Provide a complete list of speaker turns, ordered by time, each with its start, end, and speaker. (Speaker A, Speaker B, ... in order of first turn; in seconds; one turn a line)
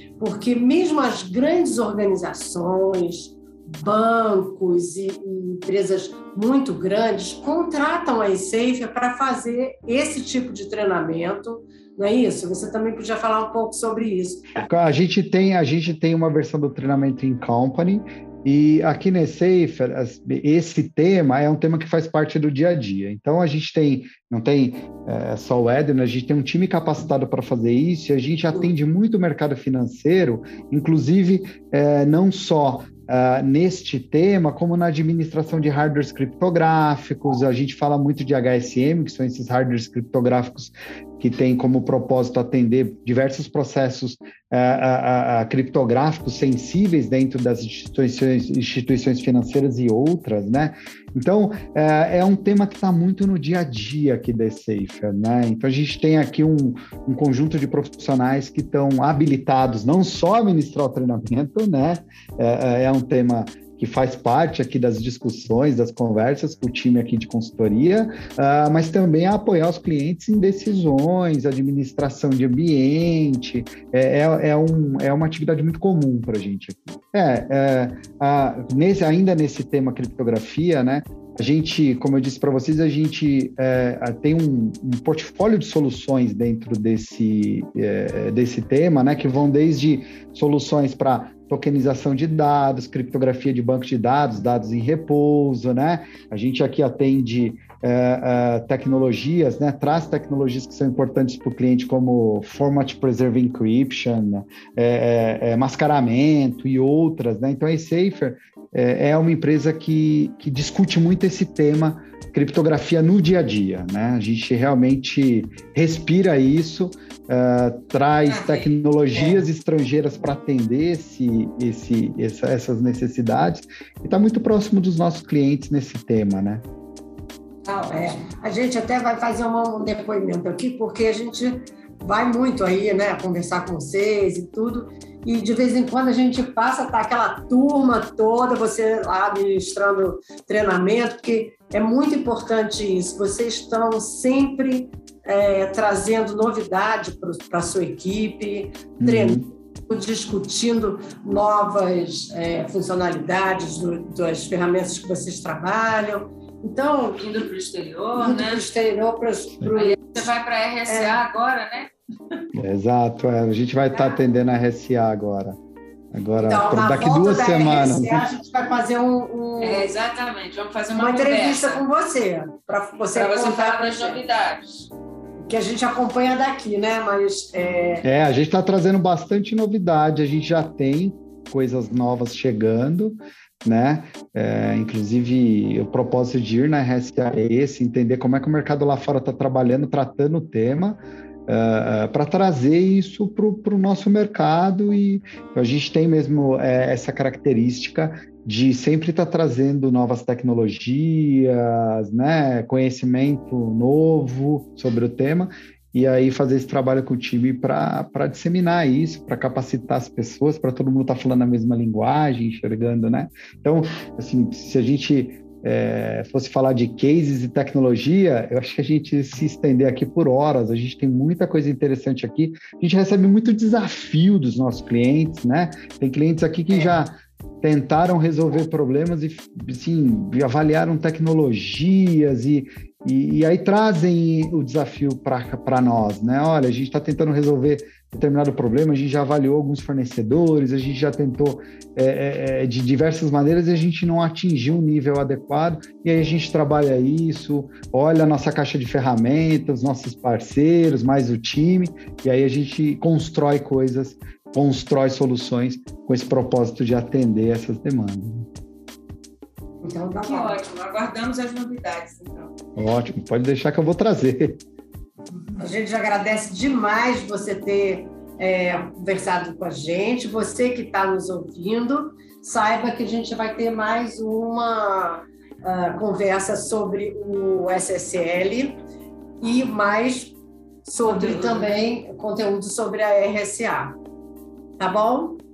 Speaker A: 0.2-14.5
Speaker B: 14.6-126.6
Speaker C: 118.3-118.7
Speaker A: 119.1-119.5
Speaker A: 127.7-157.3
Speaker C: 127.7-128.2
Speaker B: 149.0-149.4
Speaker C: 157.2-158.6
Speaker A: 158.1-160.3
Speaker C: 159.7-162.4
Speaker A: 160.9-161.2
Speaker B: 162.5-165.6
Speaker B: 166.1-168.3
Speaker A: 166.4-169.9
Speaker C: 169.6-171.8
Speaker A: 170.9-174.2
Speaker C: 173.1-174.9
Speaker A: 175.4-178.1
Speaker B: 178.0-258.4
Speaker A: 226.7-227.0
Speaker A: 259.8-260.6
Speaker C: 260.2-262.5
Speaker B: 262.8-264.6
Speaker A: 265.6-278.8
Speaker A: 279.4-284.0
Speaker C: 281.0-281.7
Speaker A: 284.8-285.4